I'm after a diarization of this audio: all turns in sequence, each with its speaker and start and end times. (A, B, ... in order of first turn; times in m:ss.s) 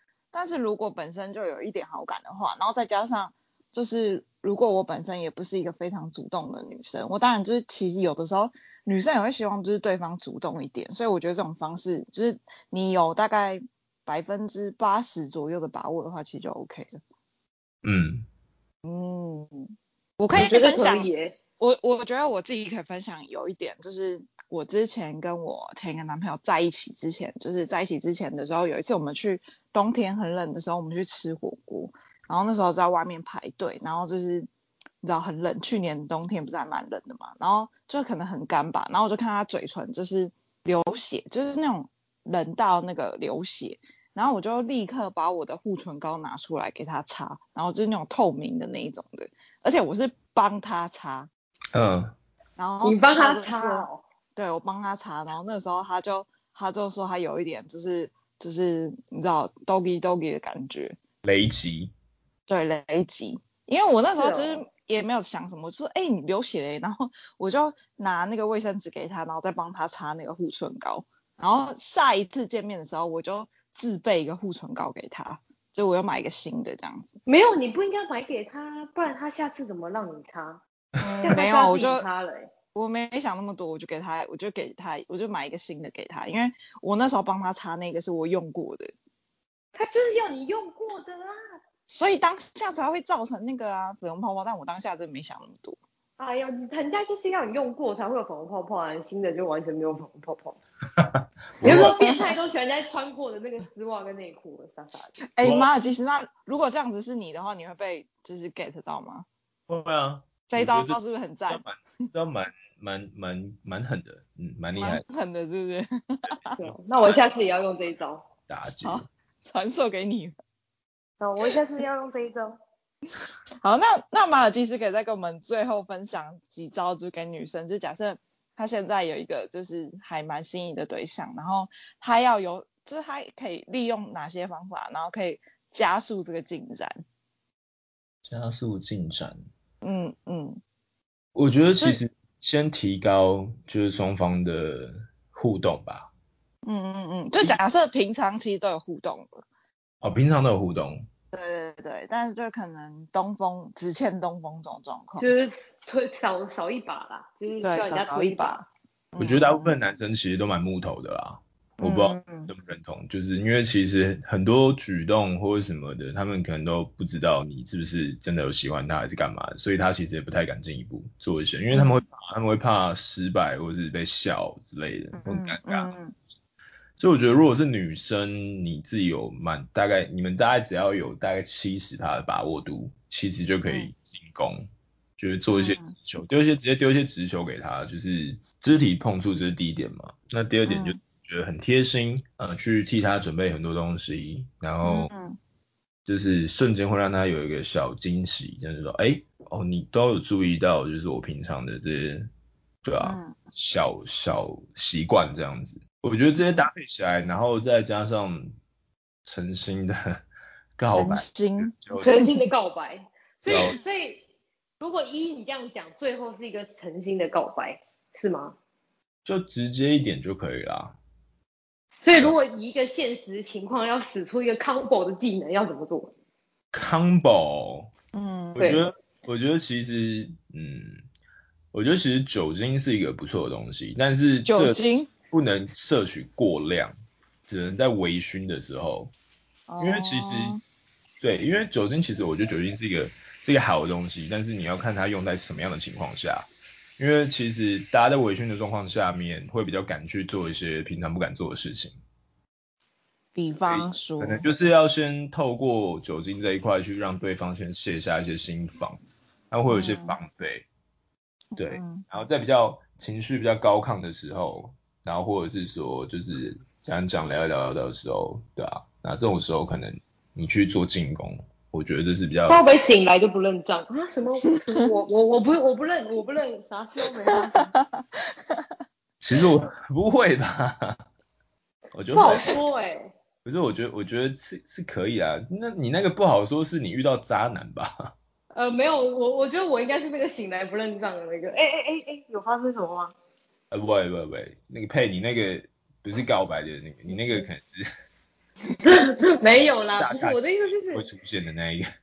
0:00.3-0:17.0 A
0:17.8-0:18.2 B
0:18.8-0:34.5 A
0:20.3-0:21.4 C
0:35.0-0:51.3 A
0:51.7-0:52.1 B
0:52.6-1:01.0 A
0:52.8-0:54.0 C
1:01.2-1:01.9 B
1:02.5-1:17.2 A
1:04.2-1:04.6 C
1:17.2-1:20.6 C
1:21.0-1:22.0 A
1:21.2-1:22.5 C
1:22.7-1:28.9 A
1:29.7-1:31.3 C
1:31.9-1:35.8 A
1:36.2-1:40.6 C
1:41.0-1:41.9 B
1:41.6-1:42.3 A
1:41.6-1:45.1 C
1:45.3-1:49.2 A
1:45.4-1:45.7 B
1:49.7-1:55.0 B
1:50.5-1:51.6 A
1:54.8-1:56.5 A
1:56.6-1:58.2 C
1:56.6-1:57.2 B
1:58.5-1:59.0 B
1:58.8-2:00.3 A
2:01.2-2:02.6 C
2:03.6-2:17.0 A
2:18.2-2:19.4 B
2:19.8-2:20.6 A
2:21.3-2:26.1 B
2:26.6-2:29.4 A
2:30.0-2:31.0 B
2:31.3-2:35.3 A
2:35.2-2:38.6 C
2:37.6-2:38.6 A
2:39.1-2:39.8 A
2:39.2-2:55.9 B
2:41.8-2:42.5 A
2:51.7-2:52.0 A
2:55.2-2:56.1 A
2:57.0-3:04.6 B
3:05.2-3:15.1 B
3:05.5-3:05.9 A
3:10.6-3:11.0 A
3:14.8-3:15.4 A
3:16.0-3:22.3 B
3:22.8-3:28.5 B
3:23.0-3:23.4 A
3:29.2-3:30.2 B
3:30.8-3:32.1 B
3:30.9-3:32.5 A
3:31.9-3:34.2 C
3:33.5-3:33.8 B
3:34.8-3:38.6 C
3:39.2-3:41.0 B
3:42.0-3:46.1 C
3:46.7-3:47.9 B
3:48.1-3:48.7 A
3:48.6-3:51.0 B
3:48.6-3:48.8 C
3:51.7-3:56.9 B
3:54.4-3:55.1 A
3:57.5-3:59.1 B
3:59.7-4:00.6 A
3:59.8-4:00.6 B
4:01.2-4:12.0 B
4:13.3-4:14.4 A
4:13.6-4:19.0 B
4:19.5-4:20.6 B
4:19.6-4:20.2 A
4:21.5-4:22.0 A
4:21.6-4:32.6 B
4:32.5-4:37.7 C
4:37.5-4:38.6 A
4:39.2-4:41.0 B
4:41.9-4:42.6 B
4:42.1-4:43.1 C
4:43.4-4:48.1 B
4:48.5-4:53.1 C
4:53.7-4:57.8 B
4:58.8-5:01.0 C
5:00.0-5:01.9 B